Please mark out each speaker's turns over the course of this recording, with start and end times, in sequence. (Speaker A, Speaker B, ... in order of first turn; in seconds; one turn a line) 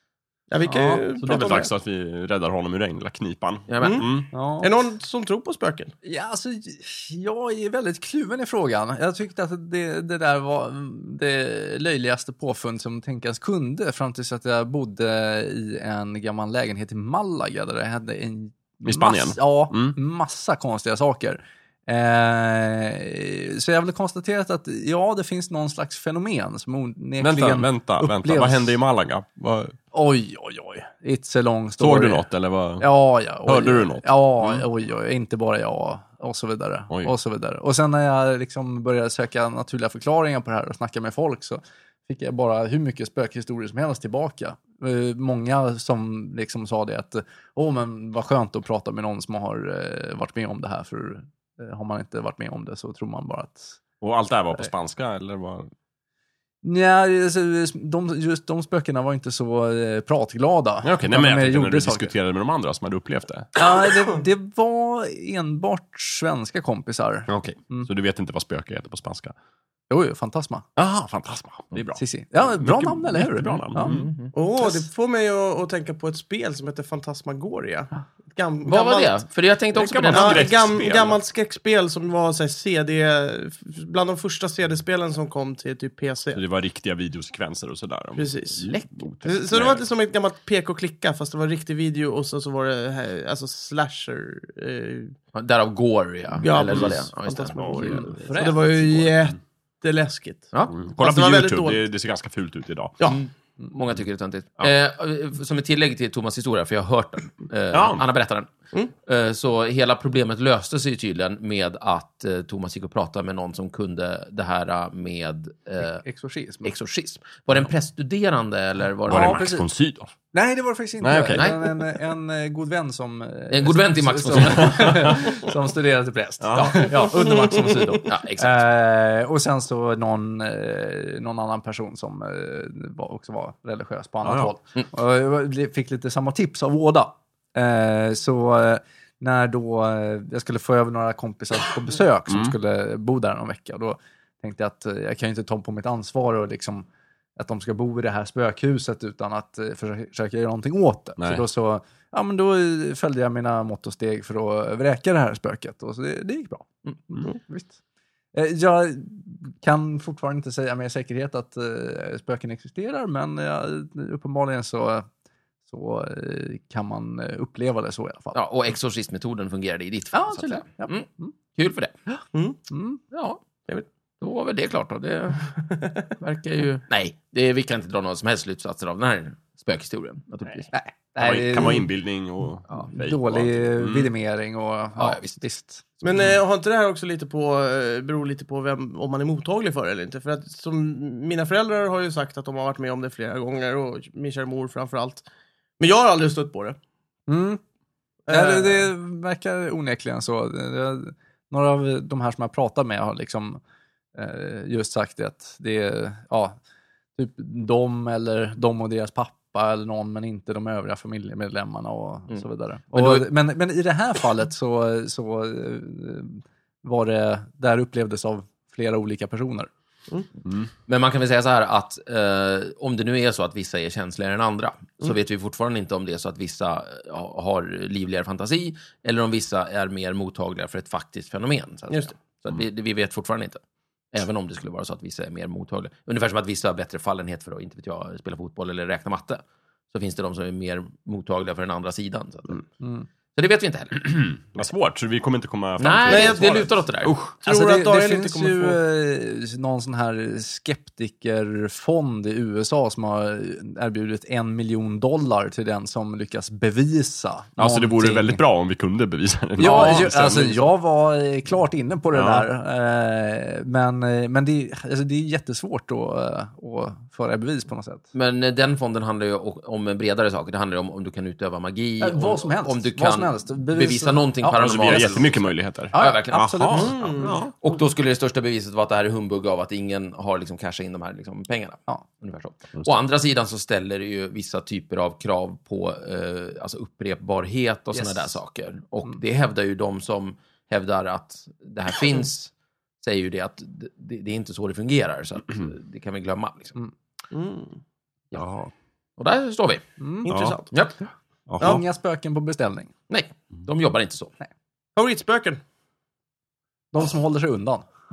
Speaker A: 0.5-1.7
Speaker B: 0.7-1.0
Speaker C: 1.2-4.3
Speaker D: 3.7-4.0
Speaker A: 3.8-4.1
Speaker B: 4.3-4.8
Speaker A: 4.6-5.9
Speaker B: 6.0-28.8
Speaker C: 18.8-19.9
Speaker C: 27.2-29.8
Speaker B: 29.9-32.2
Speaker C: 31.8-32.9
Speaker B: 32.8-53.8
Speaker C: 33.4-34.6
Speaker C: 54.0-55.7
Speaker B: 56.6-62.1
Speaker C: 60.8-63.5
Speaker B: 63.5-67.9
Speaker C: 67.3-69.3
Speaker B: 69.9-70.6
Speaker C: 70.8-72.0
Speaker B: 72.0-74.9
Speaker C: 72.5-74.1
Speaker D: 73.8-74.3
Speaker A: 74.3-79.2
Speaker D: 78.7-80.5
Speaker C: 79.7-81.2
Speaker A: 80.1-86.4
Speaker C: 86.3-89.8
Speaker A: 88.2-88.7
Speaker D: 88.6-89.1
Speaker A: 89.2-95.1
Speaker D: 95.3-98.4
Speaker A: 96.4-101.8
Speaker C: 96.7-97.0
Speaker C: 97.5-99.3
Speaker B: 97.8-98.6
Speaker C: 100.7-103.0
Speaker D: 103.1-108.5
Speaker C: 107.7-108.0
Speaker D: 109.0-116.0
Speaker B: 115.8-116.7
Speaker D: 116.6-119.5
Speaker C: 119.1-120.1
Speaker B: 119.1-119.6
Speaker B: 120.3-157.8
Speaker C: 121.0-121.5
Speaker D: 121.3-121.6
Speaker D: 123.5-125.3
Speaker C: 124.3-125.4
Speaker C: 126.4-127.0
Speaker D: 126.5-127.0
Speaker A: 127.2-128.0
Speaker D: 128.0-128.6
Speaker C: 134.2-134.5
Speaker C: 142.3-142.6
Speaker C: 151.2-151.4
Speaker B: 158.3-165.1
Speaker B: 165.7-168.4
Speaker D: 168.3-171.9
Speaker B: 170.1-171.3
Speaker B: 172.1-173.0
Speaker A: 172.3-172.6
Speaker D: 173.1-173.4
Speaker D: 174.2-175.5
Speaker A: 175.5-176.1
Speaker D: 176.2-180.7
Speaker B: 180.7-181.9
Speaker C: 181.2-184.1
Speaker B: 182.9-186.0
Speaker D: 185.0-185.4
Speaker A: 186.0-195.2
Speaker A: 195.8-196.8
Speaker B: 197.3-197.6
Speaker A: 198.3-198.9
Speaker B: 198.3-203.6
Speaker B: 204.1-206.6
Speaker B: 207.2-219.7
Speaker D: 212.3-213.2
Speaker D: 220.8-233.6
Speaker D: 234.1-242.6
Speaker B: 242.8-243.1
Speaker D: 243.3-244.2
Speaker C: 244.4-247.3
Speaker D: 245.8-247.1
Speaker A: 246.1-246.6
Speaker A: 247.4-248.8
Speaker B: 247.4-258.4
Speaker C: 257.6-260.7
Speaker B: 259.6-268.0
Speaker D: 259.6-260.1
Speaker C: 262.1-262.4
Speaker D: 268.1-296.8
Speaker B: 272.0-275.3
Speaker C: 274.5-277.5
Speaker B: 275.9-277.0
Speaker A: 276.7-277.4
Speaker B: 287.9-288.3
Speaker A: 297.3-297.8
Speaker C: 298.4-298.7
Speaker D: 299.2-299.8
Speaker B: 300.0-300.3
Speaker A: 300.2-300.7
Speaker C: 300.3-300.6
Speaker D: 300.7-301.0
Speaker C: 301.5-301.8
Speaker B: 301.6-302.9
Speaker D: 303.1-304.3
Speaker A: 304.9-305.6
Speaker B: 306.9-307.8